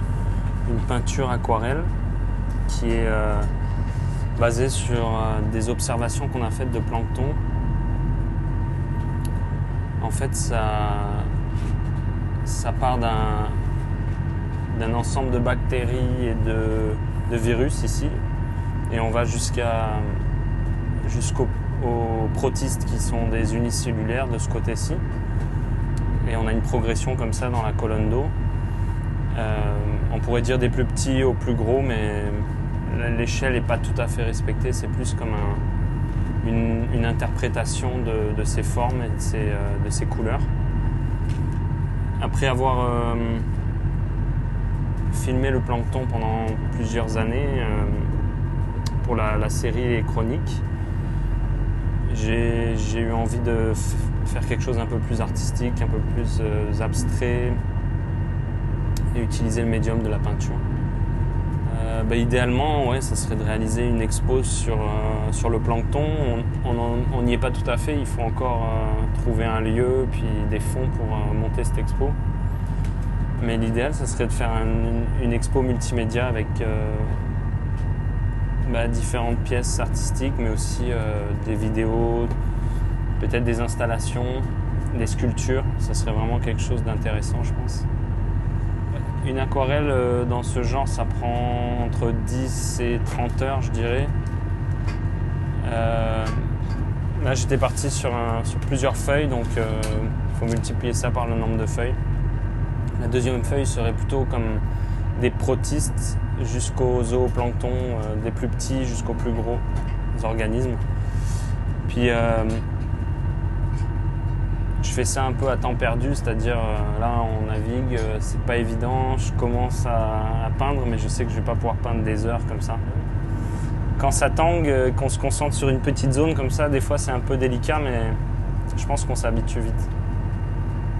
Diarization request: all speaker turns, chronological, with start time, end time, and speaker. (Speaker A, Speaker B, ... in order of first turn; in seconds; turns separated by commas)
Speaker A: 0.7-1.9, Speaker A: 2.7-3.5, Speaker A: 4.4-7.4, Speaker A: 10.0-11.3, Speaker A: 12.4-13.6, Speaker A: 14.7-18.2, Speaker A: 18.9-20.2, Speaker A: 21.0-25.0, Speaker A: 26.2-28.3, Speaker A: 29.3-35.6, Speaker A: 36.4-40.5, Speaker A: 42.2-43.5, Speaker A: 45.1-48.1, Speaker A: 49.0-50.6, Speaker A: 52.1-57.6, Speaker A: 59.1-60.6, Speaker A: 61.7-72.2, Speaker A: 73.4-77.2, Speaker A: 78.6-82.3, Speaker A: 83.2-87.9, Speaker A: 89.2-94.1, Speaker A: 95.6-96.4, Speaker A: 97.2-102.0, Speaker A: 103.0-104.6, Speaker A: 105.2-110.8, Speaker A: 111.9-112.6, Speaker A: 114.8-123.0, Speaker A: 124.0-128.2, Speaker A: 128.8-129.9